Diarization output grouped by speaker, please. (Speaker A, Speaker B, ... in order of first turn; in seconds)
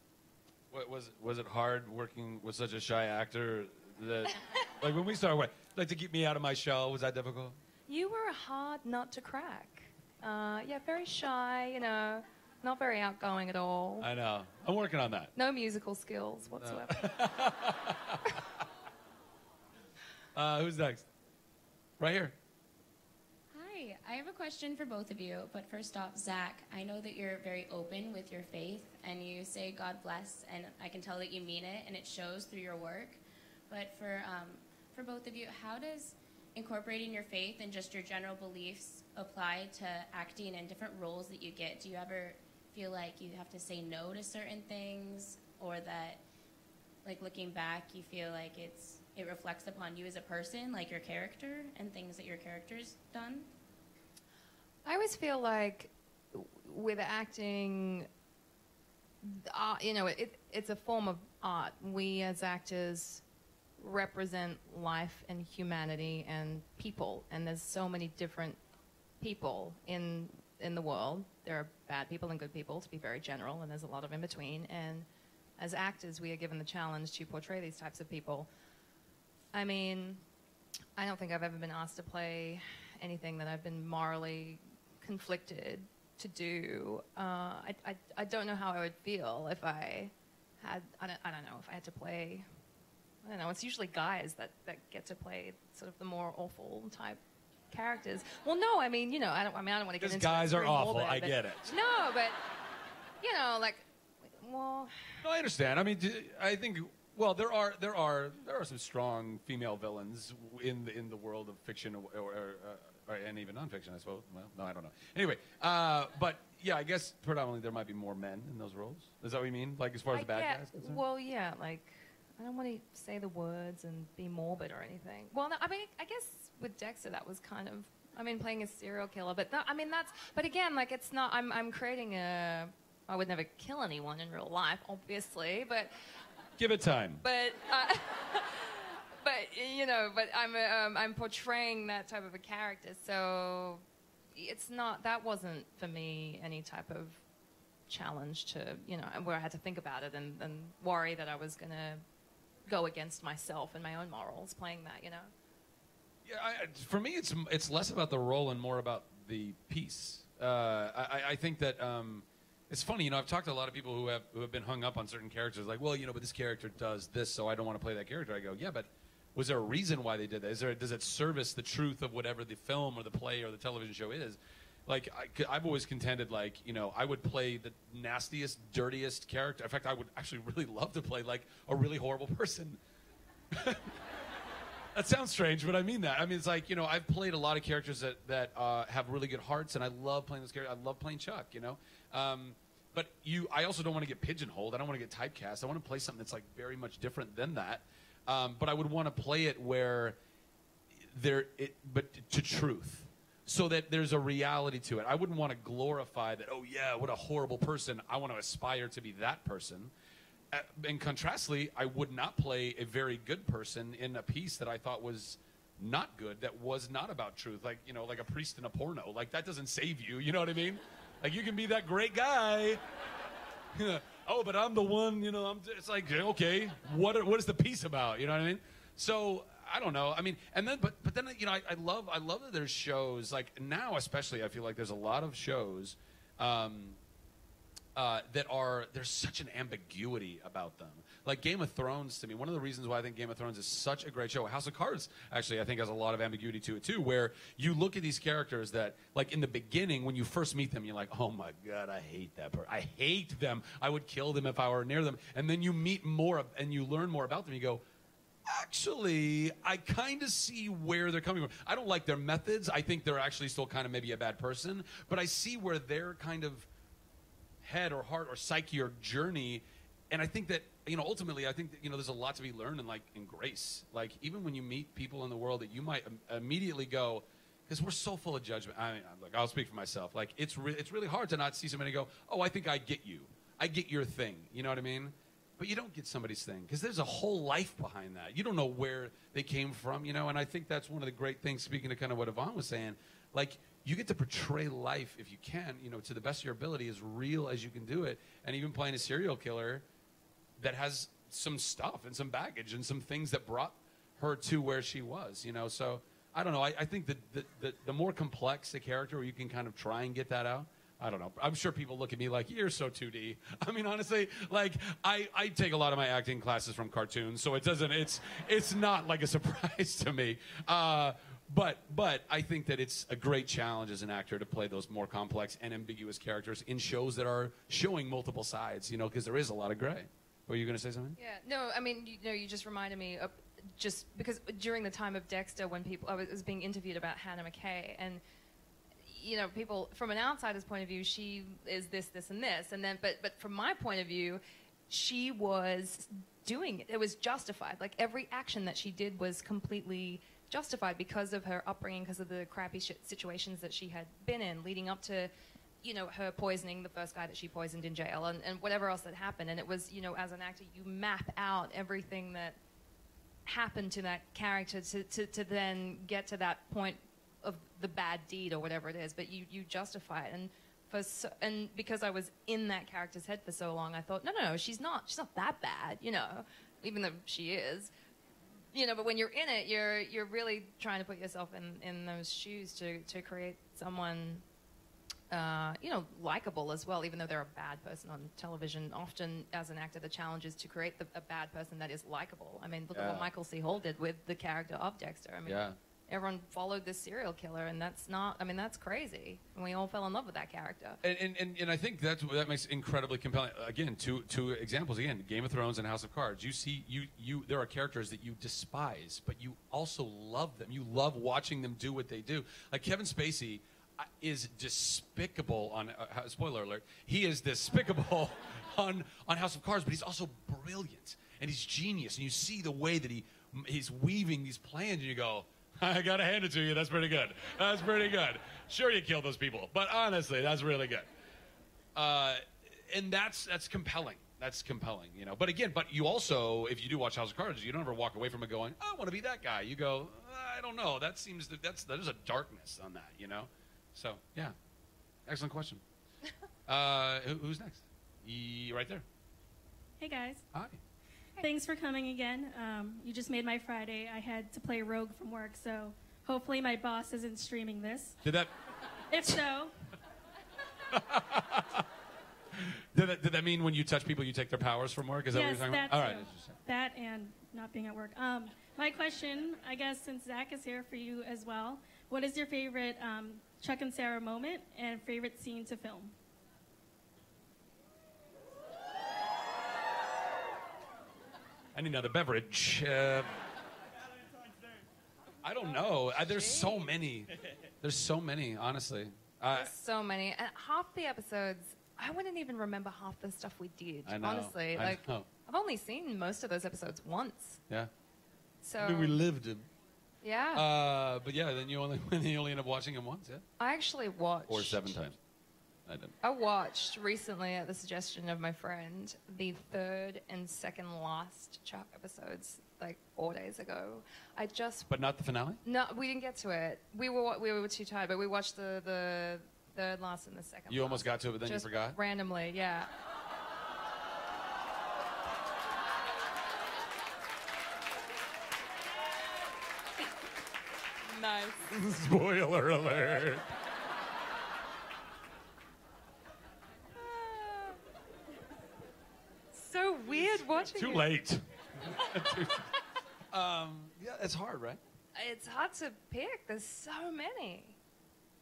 Speaker A: 0.7-7.6, 14.0-15.3, 16.6-18.3, 20.4-21.1, 22.0-22.4, 100.0-101.7, 105.2-121.0, 136.6-137.2, 156.2-182.8, 183.5-183.9, 184.9-200.2, 201.1-209.9, 210.5-222.8, 223.8-237.0, 237.9-257.8, 258.5-266.7, 267.6-299.9, 300.6-331.2, 392.9-393.3, 395.5-395.8, 401.0-431.1, 431.9-444.6, 445.3-445.8, 446.7-449.0, 450.5-450.8, 458.2-458.5, 460.9-461.9, 462.6-466.6, 481.8-483.4, 485.4-487.3, 487.8-489.7, 494.1-495.3, 498.8-499.7, 500.6-503.4, 504.5-505.2, 505.9-506.1, 514.9-515.6, 520.7-522.0, 531.7-533.5, 540.1-542.7, 543.3-544.8
Speaker B: 7.9-14.1, 15.4-17.2, 54.9-58.1, 59.2-63.2, 63.8-68.6, 69.2-75.1, 75.6-78.5, 79.5-80.2, 81.0-92.5, 93.2-97.2, 97.7-102.4, 103.2-105.2, 120.1-135.9, 137.2-143.8, 144.3-147.2, 147.9-152.0, 152.7-155.3, 331.2-338.2, 339.1-355.3, 355.8-362.6, 363.5-377.9, 378.7-384.4, 385.3-401.0, 486.1-486.9, 489.5-497.6, 498.6-499.2, 500.2-500.7, 503.6-505.0, 506.2-514.9, 515.6-522.9, 531.1-531.7, 537.0-537.8, 539.5-541.1, 545.2-547.8
Speaker C: 23.5-46.2, 47.0-53.5
Speaker D: 450.0-450.4, 451.4-458.2, 459.1-459.7, 465.3-476.1